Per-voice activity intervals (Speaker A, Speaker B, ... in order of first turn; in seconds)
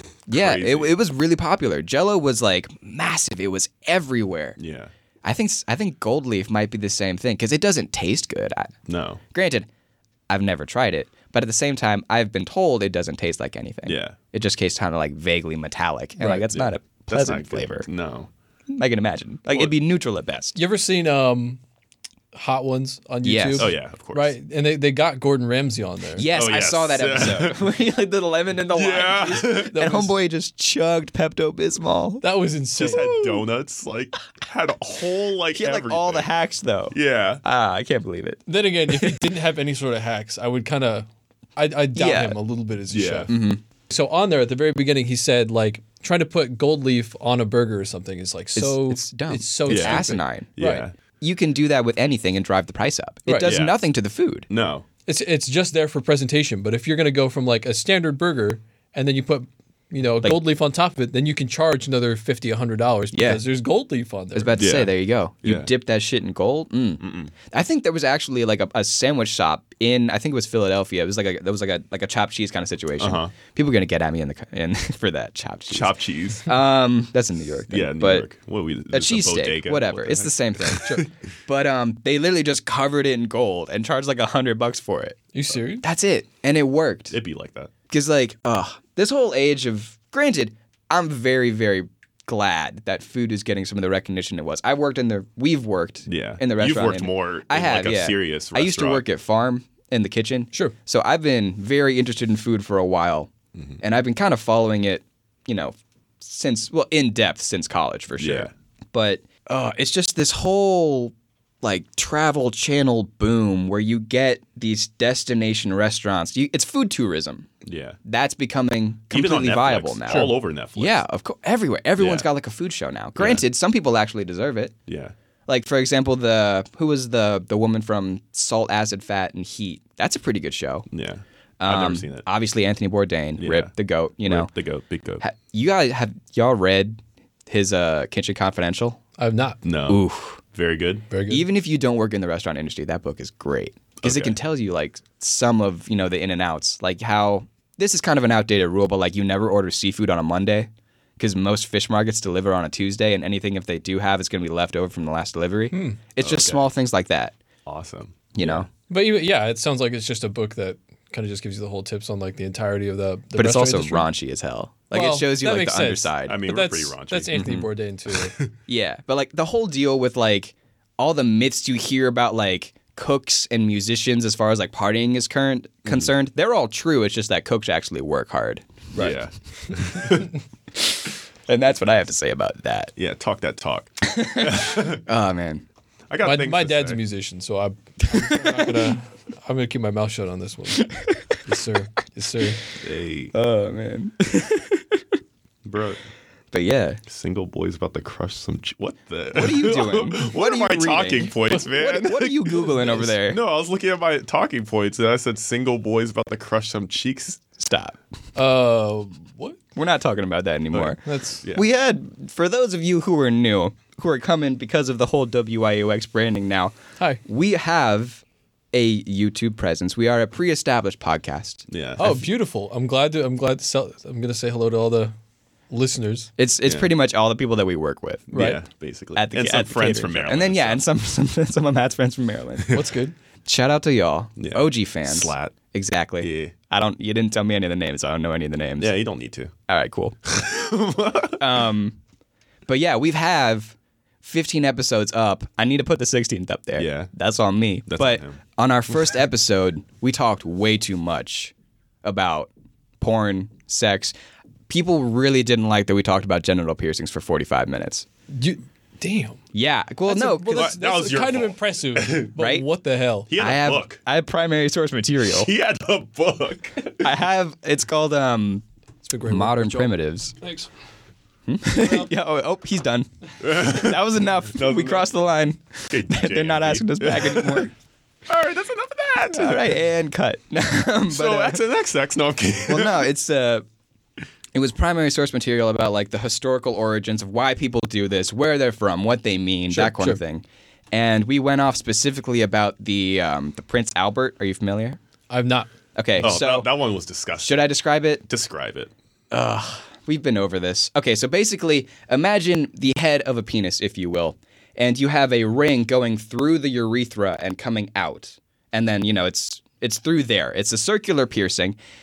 Speaker A: 0.3-4.6, 5.2-8.8, 9.3-9.7, 10.3-17.9, 18.7-20.6, 23.2-23.7, 26.2-32.2, 32.9-33.4, 35.5-39.3, 41.9-42.4, 43.3-43.6, 48.5-50.5, 51.2-54.5, 63.1-63.4, 64.3-78.3, 78.9-85.2, 85.8-87.2, 87.9-117.5, 118.0-124.8, 125.5-130.9, 131.6-134.5, 135.2-139.0, 139.9-140.4, 141.3-157.4, 158.3-158.7, 163.3-166.4, 167.3-167.7, 168.7-179.2, 180.8-182.9, 184.0-185.7, 188.0-188.9, 190.8-191.4, 193.3-195.0, 196.5-197.0, 199.3-203.4, 207.6-208.0, 209.8-211.0, 211.5-222.2, 226.4-228.3, 229.2-232.8, 233.4-239.0, 239.7-240.2, 241.4-242.0, 242.7-254.2, 254.7-258.1, 259.5-260.7, 262.4-262.6, 263.4-265.5, 267.0-268.6, 269.3-270.4, 271.5-277.7, 279.3-281.6, 282.7-283.6, 284.5-295.0, 295.9-296.7, 297.4-298.2, 299.3-311.8
Speaker B: 0.3-0.9, 4.6-4.9, 8.9-9.2, 13.9-14.2, 16.5-18.3, 23.6-24.4, 26.3-27.6, 28.7-29.8, 32.8-36.3, 36.9-37.4, 42.9-43.3, 49.7-50.1, 50.6-50.9, 53.4-53.8, 54.5-54.9, 64.6-65.7, 67.0-67.3, 73.0-73.3, 75.7-76.5, 77.7-81.1, 87.1-87.7, 96.1-99.0, 108.2-108.5, 117.6-118.0, 119.1-121.0, 122.0-122.3, 123.2-123.4, 124.9-125.1, 130.9-132.3, 133.4-133.7, 134.2-135.2, 139.6-141.1, 144.0-144.4, 156.2-156.7, 157.7-158.7, 166.3-167.4, 168.1-168.5, 179.0-180.3, 183.0-185.0, 186.1-187.0, 192.8-193.3, 195.7-196.0, 197.1-207.4, 210.7-211.7, 221.7-222.1, 226.7-226.9, 228.3-230.8, 234.4-235.6, 236.2-236.5, 238.8-239.5, 240.2-241.7, 246.8-247.1, 247.9-248.4, 260.5-262.3, 263.3-264.0, 265.2-267.1, 273.4-275.1, 275.9-277.7, 278.3-279.8, 281.1-283.1, 296.2-297.7, 298.3-298.9
Speaker C: 16.2-16.5, 20.6-21.6, 22.3-26.3, 29.7-30.1, 32.2-33.1, 38.5-43.3, 43.9-50.9, 53.3-53.6, 55.1-64.6, 85.3-85.8, 139.2-139.6, 141.1-141.4, 155.7-156.0, 158.9-164.1, 164.9-168.4, 186.2-190.9, 191.4-192.6, 208.4-209.6, 211.0-211.4, 222.0-225.1, 225.7-226.3, 228.3-228.6, 232.7-233.2, 258.3-259.4, 260.1-263.3, 269.0-270.7, 271.7-272.1, 289.7-290.2, 295.3-295.7